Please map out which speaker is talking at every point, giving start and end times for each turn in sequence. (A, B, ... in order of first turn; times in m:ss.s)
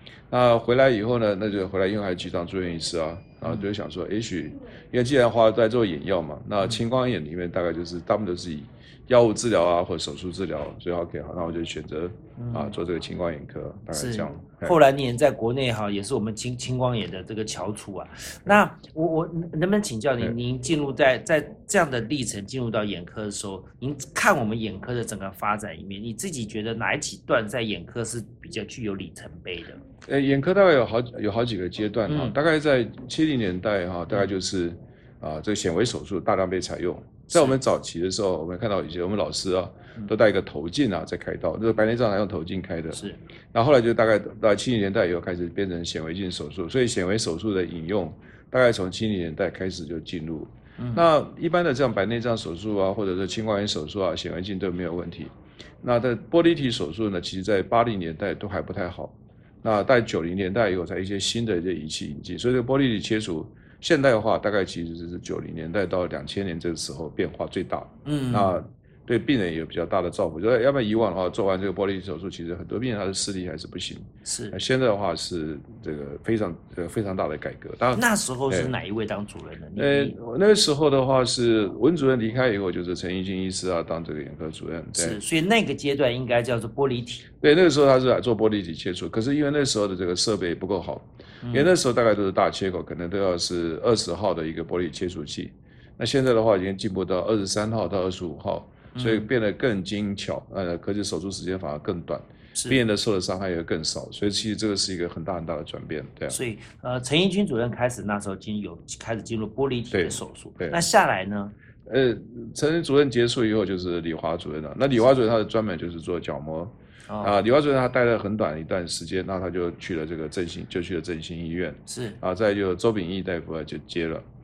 0:00.3-0:14.8 A
0:03.4-0:03.7 B
0:12.4-0:12.8 B
0:13.9-0:29.8 B
0:30.0-1:18.8 A
0:32.0-0:32.4 B
0:37.3-0:37.6 B
0:42.9-0:43.2 B
0:50.8-0:51.0 B
1:08.0-1:08.6 B
1:14.2-1:14.6 B
1:17.9-1:20.2 B
1:19.7-1:25.2 A
1:24.9-1:27.2 B
1:27.4-1:46.4 A
1:31.4-1:31.7 B
1:38.9-1:39.3 B
1:42.5-1:42.8 B
1:46.3-1:51.5 B
1:49.9-1:50.8 A
1:51.8-2:04.2 A
1:57.1-1:57.4 B
2:01.9-2:02.2 B